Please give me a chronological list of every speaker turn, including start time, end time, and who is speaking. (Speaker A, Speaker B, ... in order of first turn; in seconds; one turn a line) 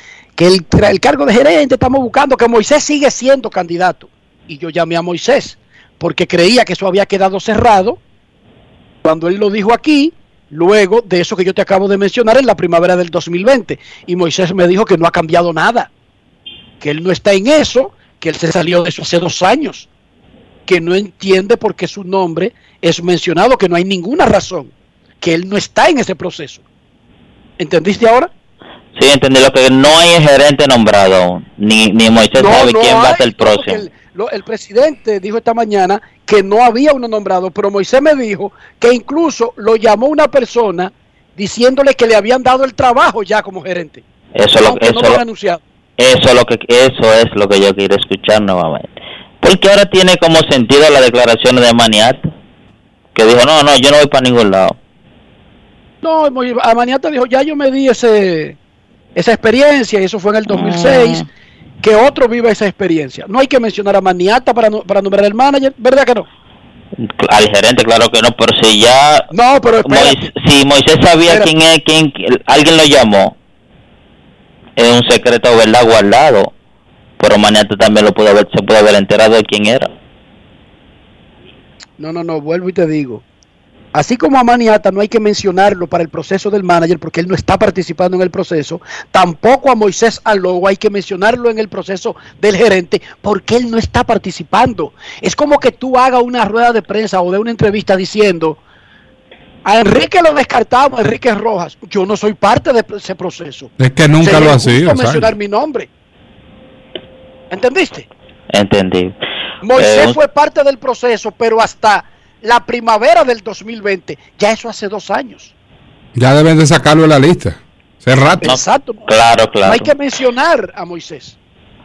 Speaker A: 0.4-8.0
Speaker A: 9.1-15.9
Speaker A: 16.8-19.9
Speaker A: 20.7-26.6
Speaker A: 27.6-28.3
Speaker B: 29.0-33.8
Speaker A: 32.4-44.0
Speaker B: 44.4-45.2
Speaker A: 44.6-45.6
Speaker B: 46.0-52.3
Speaker B: 53.1-54.8
Speaker A: 56.0-58.6
Speaker A: 59.1-61.2
Speaker A: 61.8-66.3
Speaker B: 67.2-69.2
Speaker A: 69.3-70.3
Speaker B: 69.9-73.3
Speaker B: 74.8-76.5
Speaker B: 77.2-79.9
Speaker A: 82.0-83.2
Speaker A: 83.9-98.6
Speaker A: 99.7-103.7
Speaker C: 103.8-105.3
Speaker A: 104.2-105.9
Speaker A: 107.5-108.1
Speaker B: 108.5-109.2
Speaker A: 109.6-115.5
Speaker B: 109.8-110.2
Speaker C: 116.2-118.5
Speaker A: 118.4-119.0
Speaker B: 118.4-119.9
Speaker A: 119.6-121.4